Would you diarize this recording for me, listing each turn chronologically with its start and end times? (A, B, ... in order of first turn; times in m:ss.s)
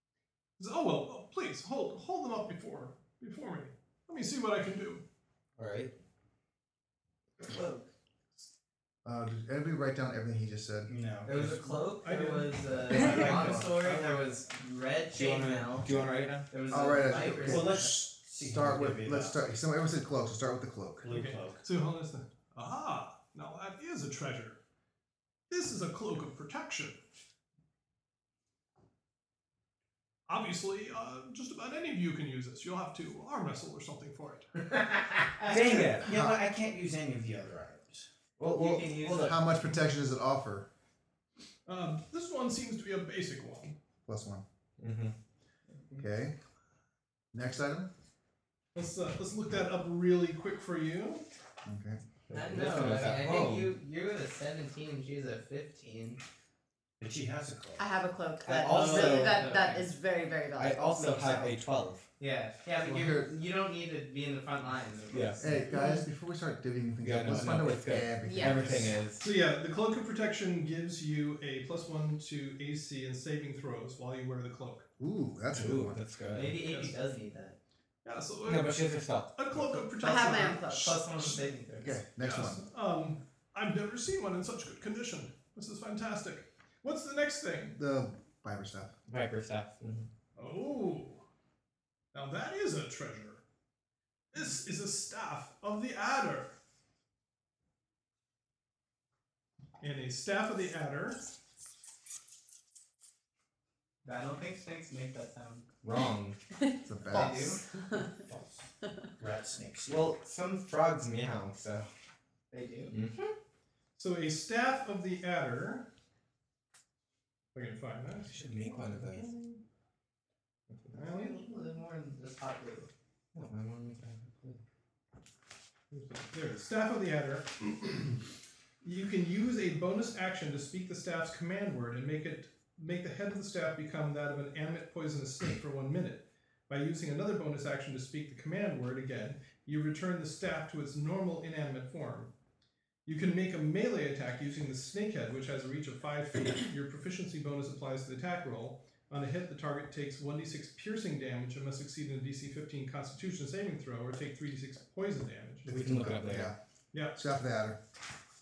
0:00.6-0:05.0 A
0:05.6-0:05.9 B
0:07.4-0:07.9 C
0:09.0-0:10.9 D
0:10.9-0:11.7 E
0:11.2-0:17.9 C
0:11.3-0:13.7 A
0:12.9-0:13.7 E
0:12.9-0:13.7 D
0:15.1-0:16.5 B
0:16.7-0:21.1 D
0:17.3-0:19.4 E
0:21.0-0:21.6 E
0:21.1-0:24.6 A
0:25.5-0:27.0 A
0:30.3-0:34.5 A
0:34.7-0:35.5 C
0:35.5-0:36.1 B
0:35.5-0:38.1 E
0:36.0-0:36.5 D
0:38.4-0:39.4 B
0:38.4-0:39.5 C
0:38.6-0:40.7 D
0:41.7-0:43.8 A
0:44.1-0:44.4 D
0:44.8-0:45.2 B
0:46.0-0:46.4 D
0:47.3-0:47.9 D
0:48.8-0:51.3 A
0:51.6-0:52.0 D
0:52.3-0:53.8 B
0:52.3-0:56.2 C
0:57.0-0:57.8 E
0:57.8-1:01.4 F
0:58.4-0:59.6 B
0:58.6-0:59.9 C
1:00.6-1:02.0 B
1:01.2-1:01.5 C
1:02.2-1:05.7 C
1:02.8-1:03.4 D
1:05.1-1:05.6 B
1:05.4-1:09.0 D
1:07.0-1:09.3 B
1:08.2-1:08.7 F
1:09.2-1:14.9 A
1:15.0-1:16.0 D
1:15.5-1:16.6 B
1:16.3-1:17.6 C
1:16.6-1:17.0 A
1:18.0-1:21.5 A
1:18.4-1:19.7 B
1:20.0-1:22.0 C
1:20.0-1:21.0 F
1:21.8-1:22.6 D
1:22.2-1:27.8 A
1:27.8-1:28.9 D
1:29.1-1:30.1 B
1:30.4-1:31.2 A
1:32.1-1:33.4 A
1:34.3-1:36.6 A
1:39.8-1:41.2 A
1:44.0-1:45.7 C
1:45.8-1:46.4 B
1:46.8-1:47.6 D
1:47.1-1:47.7 C
1:47.1-1:47.5 B
1:49.2-1:50.1 E
1:49.9-1:51.9 B
1:52.5-1:53.0 C
1:52.9-1:53.3 B
1:54.0-1:55.9 A
1:57.5-1:59.6 A
1:58.3-1:59.4 B
2:00.9-2:01.4 A
2:00.9-2:02.9 C
2:03.4-2:04.6 B
2:05.9-2:08.2 A
2:08.8-2:22.3 A
2:23.1-2:35.7 A
2:35.6-2:36.6 D
2:35.7-2:36.5 B
2:36.9-2:37.2 A
2:37.1-2:37.8 D